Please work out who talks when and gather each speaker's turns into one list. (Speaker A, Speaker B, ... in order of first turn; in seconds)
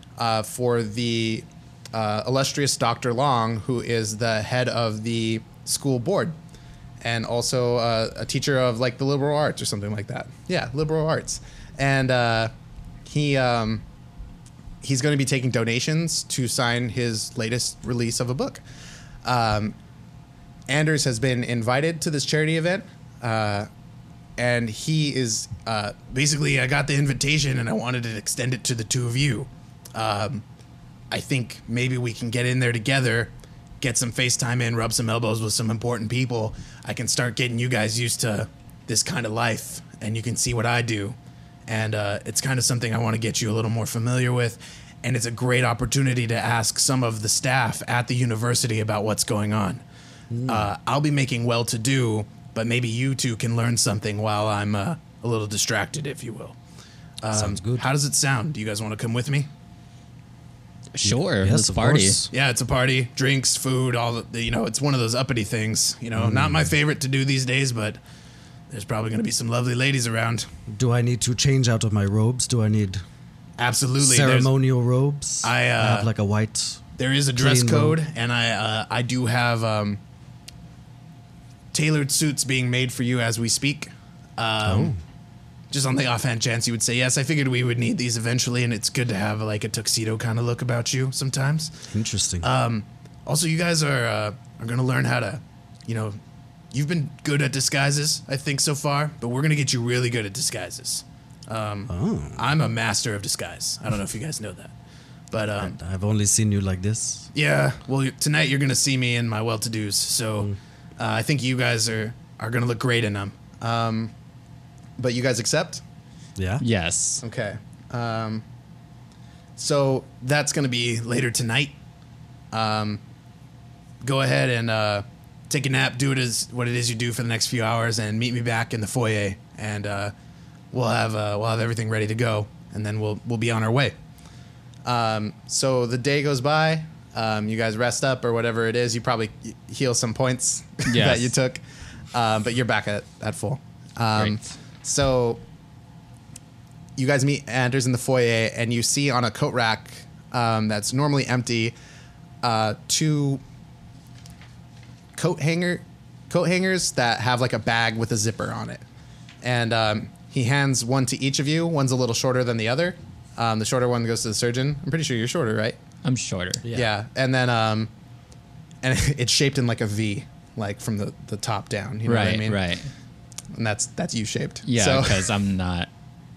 Speaker A: 0.2-6.4, 7.0-12.5, 13.1-13.8, 14.8-18.6, 19.2-19.8, 20.7-23.7, 24.4-30.4, 31.1-41.1, 41.7-49.8, 50.5-56.5, 57.2-59.5, 62.3-68.0, 68.7-70.5, 73.6-74.5, 75.4-76.1, 77.0-80.0, 81.7-84.9, 85.7-91.7, 92.4-96.2, 96.7-104.7, 105.3-105.8, 107.3-114.1, 115.0-115.8, 117.2-118.4, 119.6-121.8, 122.5-123.0, 124.0-130.1, 130.7-133.9, 134.8-141.6, 142.1-145.4, 147.0-151.7, 152.4-153.4, 155.2-158.8, 159.4-165.8, 166.7-167.9, 168.8-172.6, 173.5-175.3
Speaker B: 50.3-50.7, 57.3-57.9, 61.0-62.3, 66.1-66.7, 70.7-73.0, 74.0-76.8, 77.3-78.0, 84.6-85.0, 91.9-92.5, 101.9-102.5, 105.6-107.3, 116.4-116.6, 166.6-166.9
Speaker C: 60.9-62.2, 116.6-117.2, 140.9-141.3, 166.0-166.6, 172.1-172.9, 174.7-175.9